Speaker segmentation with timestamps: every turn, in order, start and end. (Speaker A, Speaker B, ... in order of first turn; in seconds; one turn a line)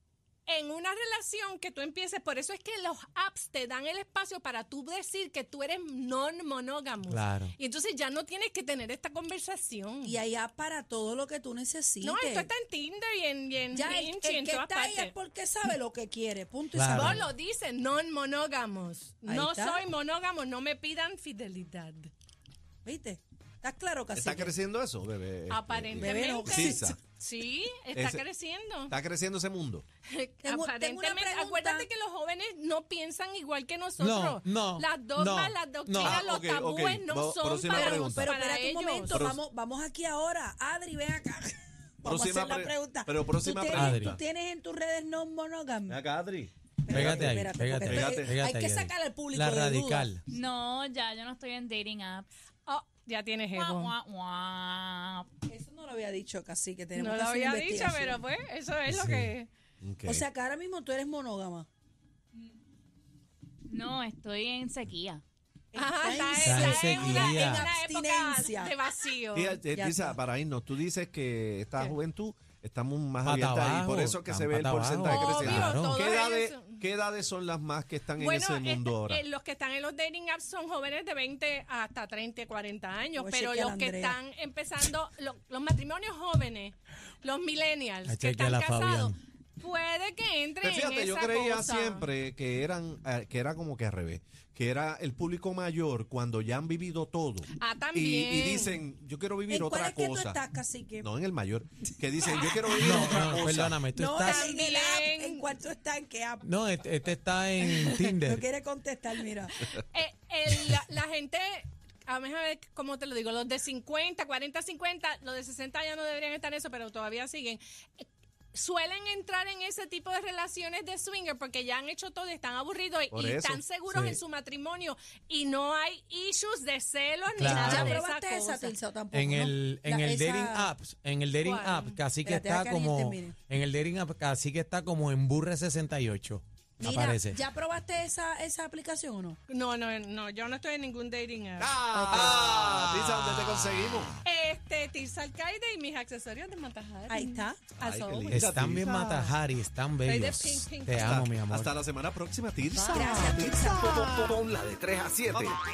Speaker A: 0.5-10.2
Speaker B: 7.0-7.5
Speaker C: 10.0-12.5
Speaker A: 12.0-15.1
Speaker C: 13.7-17.3
Speaker B: 16.7-17.2
Speaker A: 16.9-22.1
Speaker C: 19.3-19.8
Speaker C: 22.9-24.6
Speaker D: 24.1-27.0
Speaker A: 25.5-29.0
Speaker C: 26.0-26.9
Speaker D: 27.9-28.2
Speaker D: 28.9-29.9
Speaker A: 30.1-39.3
Speaker C: 30.4-31.9
Speaker B: 34.0-36.2
Speaker D: 36.0-38.3
Speaker C: 37.6-46.0
Speaker D: 39.1-39.4
Speaker D: 42.0-44.2
Speaker B: 43.7-44.2
Speaker D: 45.9-47.3
Speaker C: 46.8-50.1
Speaker B: 46.9-50.2
Speaker D: 47.9-48.4
Speaker E: 50.3-52.3
Speaker A: 52.7-54.0
Speaker E: 53.5-55.3
Speaker C: 55.5-58.2
Speaker A: 57.0-59.5
Speaker B: 58.9-59.3
Speaker D: 59.8-60.2
Speaker C: 60.1-61.7
Speaker E: 63.7-65.2
Speaker C: 65.7-68.7
Speaker A: 65.8-69.6
Speaker B: 66.4-67.7
Speaker D: 69.3-79.2
Speaker C: 69.7-70.2
Speaker B: 73.2-76.0
Speaker A: 75.0-76.8
Speaker A: 78.2-92.1
Speaker C: 83.2-84.2
Speaker B: 88.0-89.2
Speaker D: 90.6-100.4
Speaker A: 97.5-98.8
Speaker C: 99.5-101.1
Speaker D: 101.0-103.8
Speaker C: 102.2-103.2
Speaker B: 102.7-104.4
Speaker C: 103.9-106.5
Speaker A: 104.2-105.4
Speaker B: 106.4-108.4
Speaker C: 107.6-109.8
Speaker A: 109.8-128.8
Speaker D: 123.1-123.6
Speaker B: 123.9-124.2
Speaker B: 127.3-128.0
Speaker C: 127.4-130.7
Speaker B: 129.1-137.4
Speaker A: 131.4-132.0
Speaker C: 132.2-133.3
Speaker C: 136.8-139.4
Speaker A: 139.5-141.8
Speaker D: 141.6-144.1
Speaker C: 141.9-142.7
Speaker B: 142.1-144.2
Speaker A: 144.2-148.4
Speaker C: 147.1-147.7
Speaker D: 147.8-149.3
Speaker B: 148.3-151.8
Speaker A: 150.0-151.2
Speaker D: 150.9-154.3
Speaker A: 152.7-153.4
Speaker C: 152.9-154.4
Speaker F: 153.2-155.6
Speaker D: 155.3-155.6